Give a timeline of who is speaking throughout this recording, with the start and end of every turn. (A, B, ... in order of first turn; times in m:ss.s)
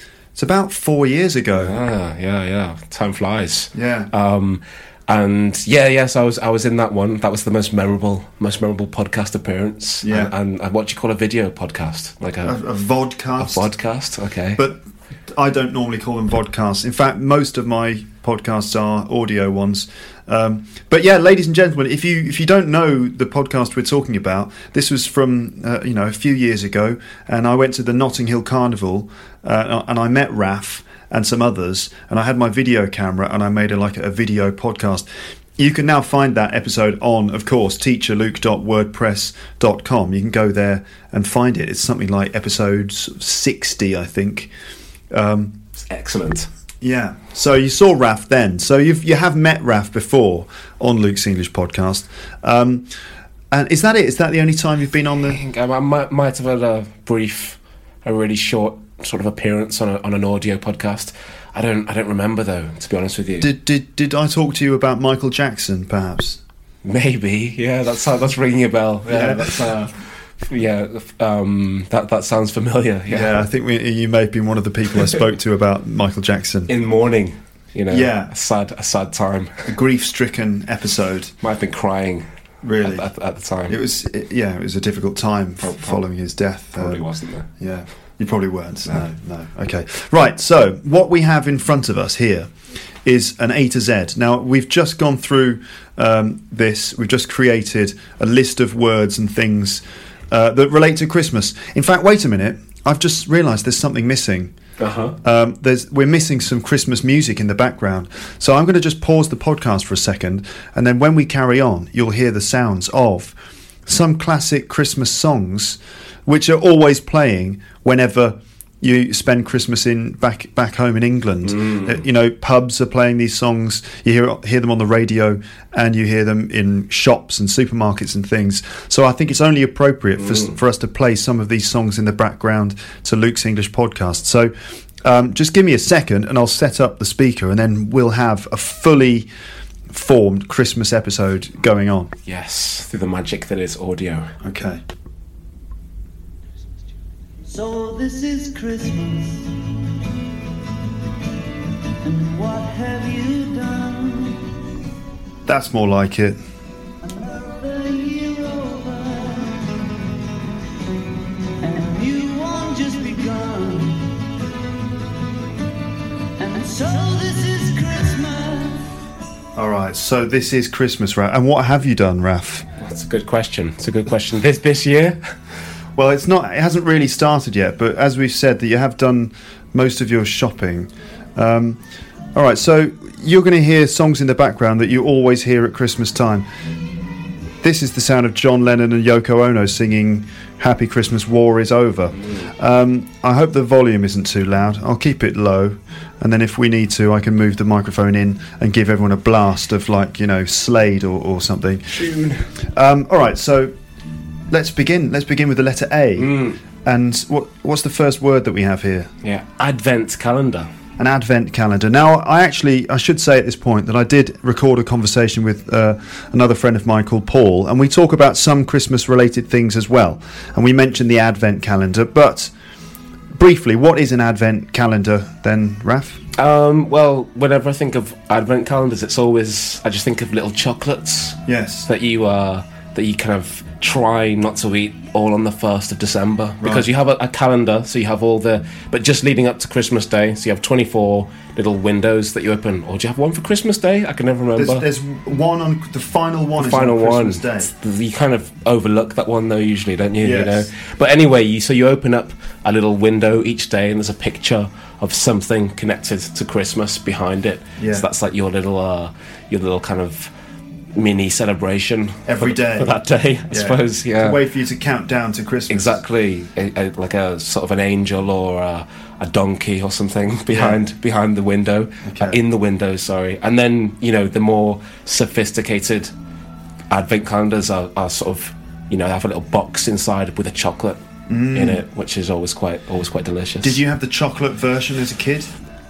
0:00.4-0:01.8 A
0:01.6-0:12.6 B
0:03.7-0:04.1 A
0:10.0-0:10.3 A
0:12.4-0:13.7 A
0:13.4-0:14.6 B
0:14.6-0:35.1 A
0:35.6-0:44.5 A
0:45.1-0:45.6 A
0:45.8-0:46.5 B
0:46.8-0:52.9 A
0:53.5-0:55.4 A
0:55.3-1:03.5 B
1:03.4-1:06.4 A
1:06.8-1:13.5 B
1:09.1-1:09.8 A
1:13.1-1:16.7 A
1:16.7-1:19.7 B
1:17.9-1:18.3 A
1:19.6-1:21.3 A
1:21.4-1:22.3 B
1:22.6-1:23.1 A
1:22.8-1:23.8 B
1:23.7-1:27.0 A
1:25.6-1:26.0 B
1:26.8-1:27.5 B
1:27.6-1:32.5 A
1:33.0-1:44.5 A
1:44.8-1:45.2 B
1:45.2-1:53.4 A
1:53.9-2:19.3 A
2:01.4-2:02.0 B
2:10.2-2:10.6 B
2:19.9-2:22.1 A
2:22.3-2:24.4 B
2:24.4-2:24.8 A
2:27.5-2:29.5 C
2:32.0-2:34.5 C
2:35.5-2:36.4 A
2:37.1-2:39.8 C
2:41.5-2:44.1 C
2:46.4-2:48.9 C
2:49.6-2:52.7 A
2:52.8-2:55.2 B
2:56.0-3:01.8 A
3:02.4-3:06.5 A
3:07.6-3:21.9 A
3:21.9-3:22.5 B
3:22.7-3:23.7 A
3:24.5-3:29.1 A
3:26.2-3:26.6 B
3:29.2-3:30.7 B
3:31.0-3:42.5 A
3:43.3-3:46.2 A
3:46.4-4:04.8 B
3:51.5-3:51.9 A
3:56.6-3:56.9 A
4:04.6-4:07.7 A
4:06.6-4:20.3 B
4:10.2-4:10.7 A
4:17.8-4:18.1 A
4:21.0-4:24.4 B
4:22.3-4:23.0 A
4:23.5-4:26.0 A
4:25.7-4:36.1 B
4:30.5-4:30.8 A
4:32.0-4:32.4 A
4:36.9-4:41.0 B
4:41.3-4:41.8 A
4:41.5-4:43.8 B
4:43.6-4:45.5 A